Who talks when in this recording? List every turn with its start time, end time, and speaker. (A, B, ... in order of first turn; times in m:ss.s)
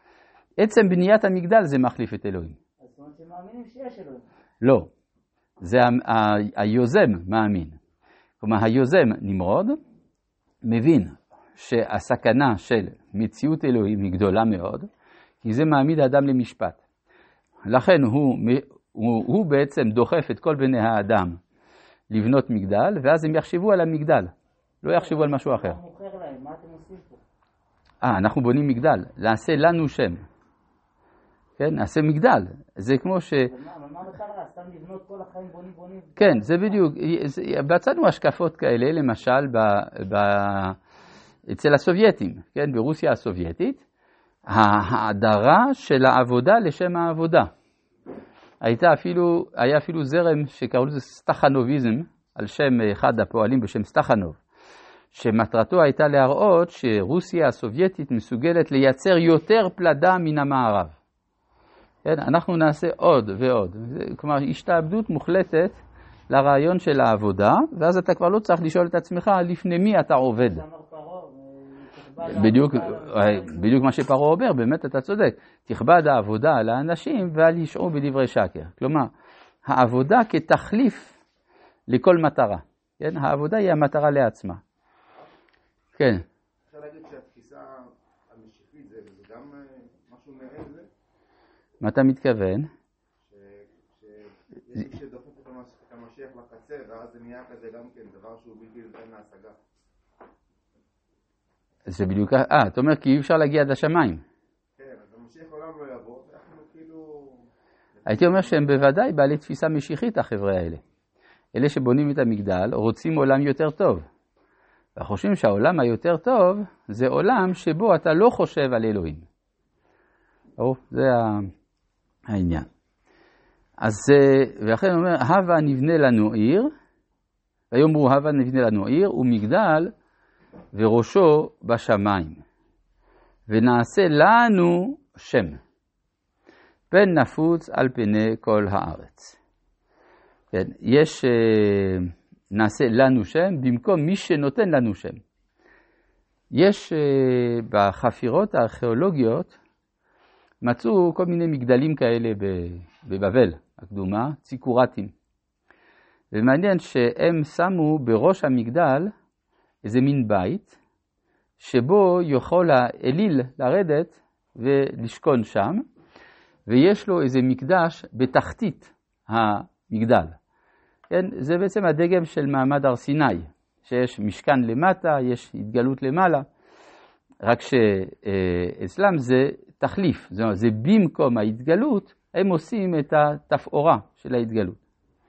0:00.6-0:02.6 A
0:02.8-0:04.3 B
0:04.6-0:04.9 A
0:05.6-0:07.8 A
0:08.4-0:09.8 A
0:10.6-0:14.9 A
0:15.4-0:16.8 A
0:17.7-0:21.4 A
0:22.1-0:25.8 A
0:24.9-0:27.2 B
0:28.0-0:30.2 A
0:31.6-0:33.5 A
0:33.4-0:36.8 B
0:36.2-0:40.8 A
0:41.5-0:43.8 A
0:44.5-0:47.5 A
0:48.6-0:54.4 A
0:55.1-1:01.0 A
1:02.0-1:05.8 A
1:06.3-1:10.6 A
1:10.4-1:13.8 B
1:12.2-1:19.1 A
1:19.6-1:21.2 A
1:21.9-1:24.6 A
1:26.0-1:26.2 A
1:26.7-1:30.9 C
1:31.8-1:32.7 A
1:33.3-1:39.6 C
1:41.9-1:44.2 A
1:44.8-1:47.4 C
1:48.0-1:48.5 C
1:48.1-1:50.8 A
1:51.6-1:54.0 A
1:55.0-1:59.2 A
2:00.6-2:01.5 A
2:02.3-2:02.7 A
2:03.8-2:06.7 A
2:07.7-2:09.9 A
2:10.7-2:12.4 A
2:13.5-2:15.6 A
2:16.9-2:19.4 A
2:20.5-2:25.2 A
2:26.5-2:29.6 A
2:30.6-2:35.1 A
2:36.3-2:39.1 A
2:39.8-2:40.8 A
2:41.6-2:45.8 A
2:46.7-2:50.4 A
2:51.1-2:56.5 A
2:57.4-3:04.8 A